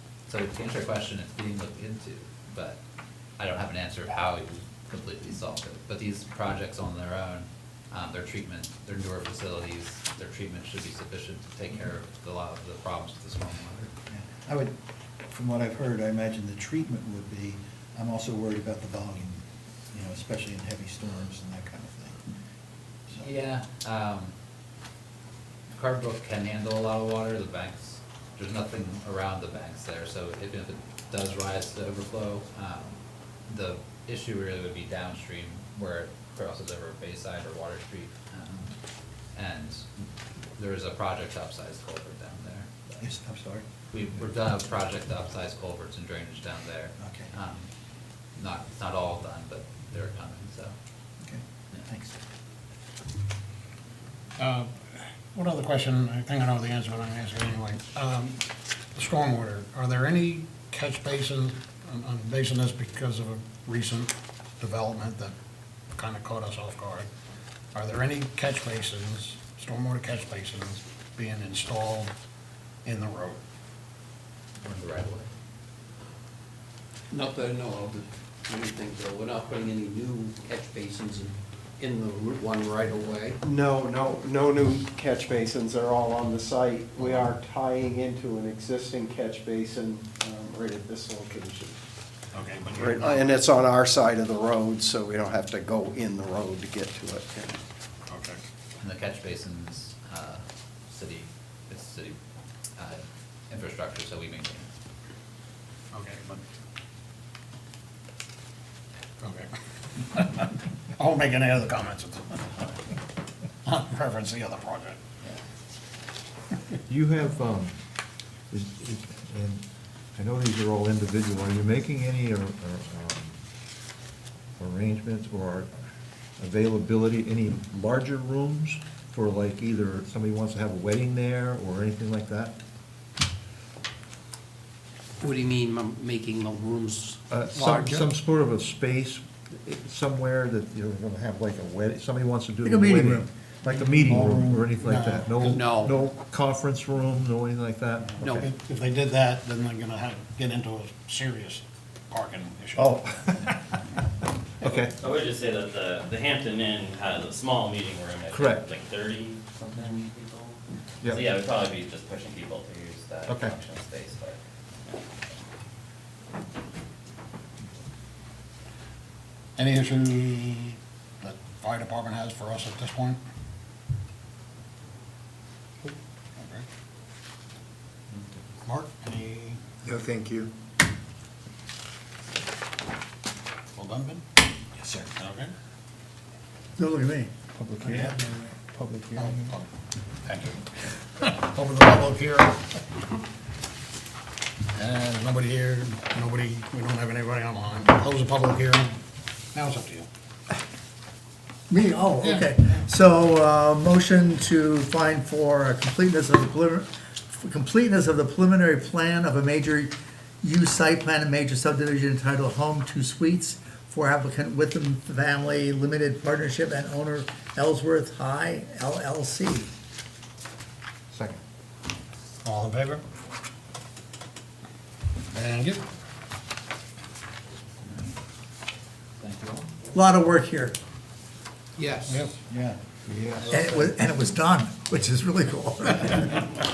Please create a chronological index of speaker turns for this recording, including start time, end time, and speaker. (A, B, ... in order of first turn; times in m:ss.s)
0:00.3-0:02.8 A
0:03.4-0:13.9 A
0:14.1-0:14.7 B
0:15.3-0:19.4 B
0:19.9-0:22.2 B
0:23.2-0:24.3 A
0:25.7-0:38.7 A
0:39.3-0:40.0 A
0:40.6-0:42.7 A
0:43.0-0:43.6 B
0:43.9-0:47.7 A
0:48.4-0:50.7 A
0:54.4-0:58.4 C
0:59.0-1:05.3 C
1:05.9-1:07.1 C
1:07.7-1:12.1 C
1:12.8-1:13.4 C
1:14.6-1:15.3 A
1:17.1-1:23.4 D
1:23.4-1:31.8 E
1:27.0-1:27.3 C
1:32.3-1:33.3 C
1:32.7-1:37.6 E
1:38.1-1:38.4 C
1:38.8-1:42.2 A
1:42.8-1:44.7 A
1:45.9-1:46.4 C
1:49.2-1:52.8 C
1:53.6-1:55.0 C
1:56.9-1:57.8 F
1:58.5-1:59.6 F
2:00.2-2:03.4 F
2:04.6-2:05.7 F
2:06.4-2:12.6 F
2:15.2-2:18.1 D
2:17.3-2:28.4 F
2:22.6-2:23.3 G
2:24.1-2:24.5 B
2:24.8-2:25.7 C
2:25.5-2:26.0 D
2:28.2-2:28.5 D
2:28.3-2:32.9 C
2:32.8-2:33.6 F
2:34.6-2:34.9 F
2:35.0-2:45.0 H
2:38.3-2:38.7 F
2:41.0-2:41.3 F
2:43.3-2:43.6 F
2:49.6-2:53.2 C
2:55.8-2:56.6 C
2:58.6-2:59.6 C
2:59.8-3:00.5 E
3:03.7-3:04.2 C
3:04.8-3:05.5 C
3:06.8-3:07.3 G
3:07.5-3:09.4 F
3:08.0-3:08.5 G
3:09.2-3:09.6 C
3:10.2-3:10.6 C
3:11.2-3:12.6 C
3:14.7-3:19.0 C
3:19.5-3:20.1 C
3:21.7-3:39.7 G
3:22.2-3:22.5 C
3:41.1-3:41.4 F
3:42.4-3:43.0 C
3:45.3-3:45.8 C
3:47.8-3:48.1 A
3:49.2-3:49.7 A
3:49.9-3:50.8 G
3:51.8-3:52.2 D
3:52.1-3:52.4 C
3:52.5-3:52.8 B
3:53.1-3:53.8 F
3:53.5-3:56.6 G